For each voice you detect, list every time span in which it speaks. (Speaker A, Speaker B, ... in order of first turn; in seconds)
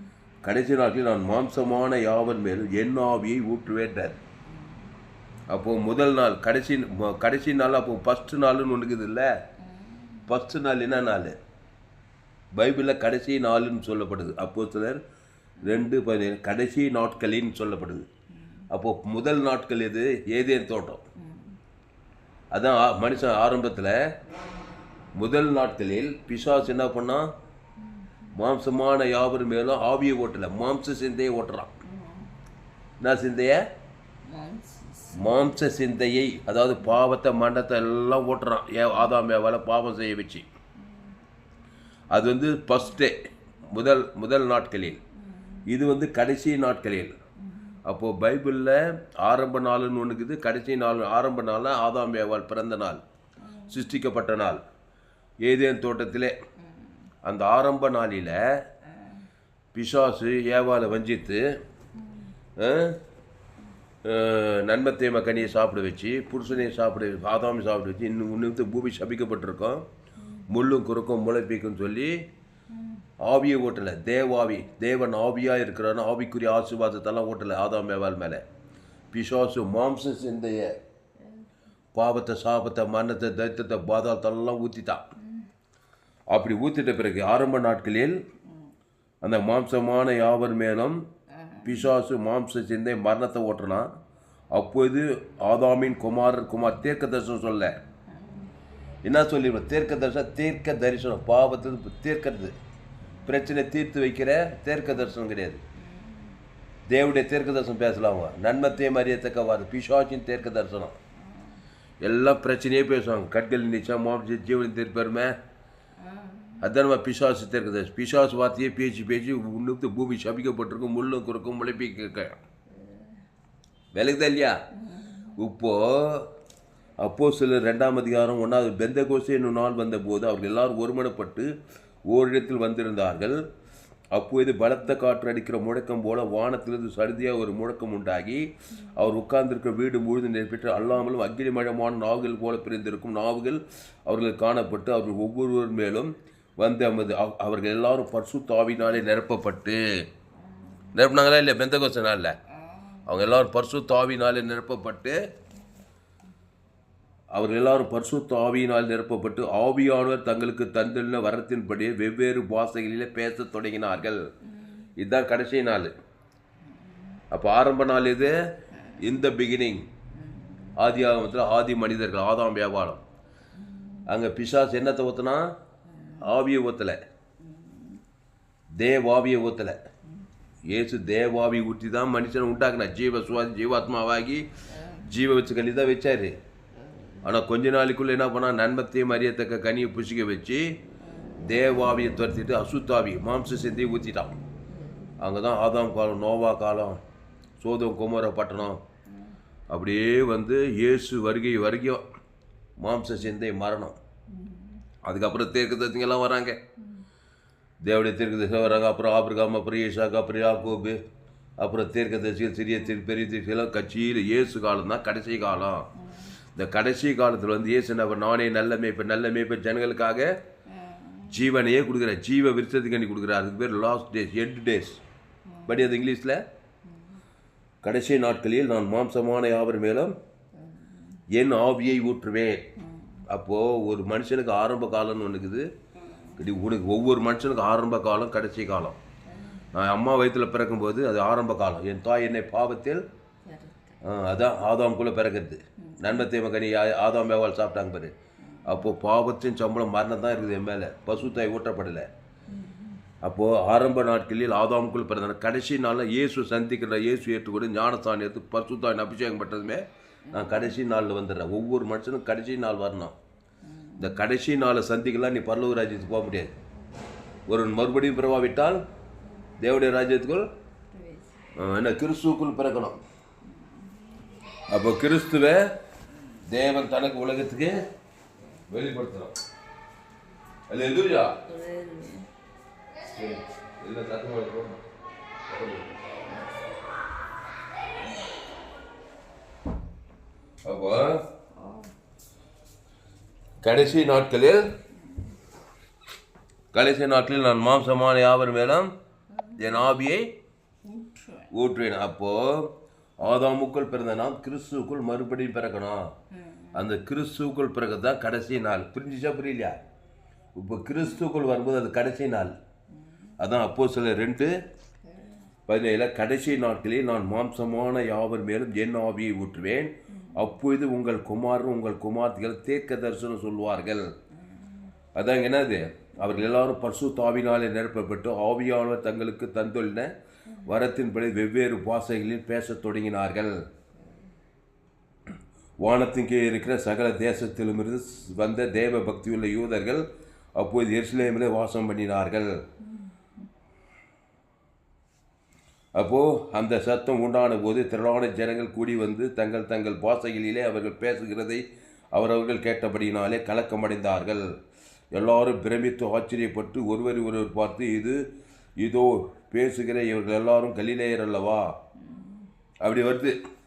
Speaker A: 0.4-4.2, 5.5-9.3, 10.2-11.4, 12.5-15.0, 15.6-18.1, 18.7-21.0, 22.5-24.1, 25.1-27.3, 28.3-31.7, 33.0-33.6, 35.1-40.5, 42.1-43.1, 43.7-45.0, 45.6-47.1, 47.9-53.0, 53.7-54.6, 55.4-56.3, 57.2-58.6, 59.7-61.6, 62.6-63.0, 64.0-69.8, 70.5-72.3, 73.2-78.4, 79.1-80.8, 81.9-85.0, 86.3-88.2, 89.2-91.0, 91.6-93.9, 94.5-97.8, 99.0-102.5, 103.2-105.6, 106.9-111.0, 112.0-115.4, 116.6-122.4, 123.9-124.6, 125.3-126.3, 127.0-131.5, 132.1-133.4, 134.1-150.1, 150.9-152.4, 153.1-155.2, 157.3-164.3, 165.0-165.9, 167.3-169.9, 170.8-173.0, 174.1-175.5, 176.2-177.0, 178.8-179.8, 180.7-186.4, 187.2-190.8, 191.4-194.4, 195.2-197.0, 197.6-198.8, 199.7-202.0, 202.8-203.9, 205.0-206.6, 207.8-211.0, 211.6-215.9, 216.5-220.4, 221.3-225.0, 225.7-226.4, 227.8-230.1, 231.3-232.7, 233.3-235.7, 236.4-239.0, 239.7-243.0, 244.0-248.1, 248.7-252.1, 253.2-263.1, 264.0-266.6, 267.5-268.8, 269.6-270.5, 271.6-273.0, 274.7-275.7, 276.5-277.9, 278.7-279.3, 280.7-281.4, 283.1-284.8, 285.5-286.0, 290.6-291.2, 293.6-294.7, 296.7-298.9, 299.5-300.3, 301.5-306.1, 306.7-309.8, 310.6-312.5, 313.4-314.6, 315.7-324.1, 325.1-330.1, 330.6-333.6, 335.8-342.6, 345.9-354.6, 355.1-358.2, 358.8-361.8, 362.8-363.4
Speaker B: 9.7-10.2, 21.2-21.6, 31.8-32.3, 34.2-35.4, 40.8-41.1, 53.4-53.9, 91.4-91.8, 98.1-98.5, 116.0-116.6, 124.9-125.2, 170.2-170.7, 173.6-174.0, 177.4-177.9, 204.3-204.8, 216.0-216.3, 220.7-221.4, 225.5-225.9, 230.6-231.2, 232.8-233.2, 243.4-243.9, 245.8-246.2, 252.5-253.0, 260.3-260.7, 263.6-264.2, 270.9-271.5, 273.5-273.9, 281.4-282.3, 291.5-291.9, 299.4-299.7, 300.8-301.5, 306.3-306.8, 362.1-362.4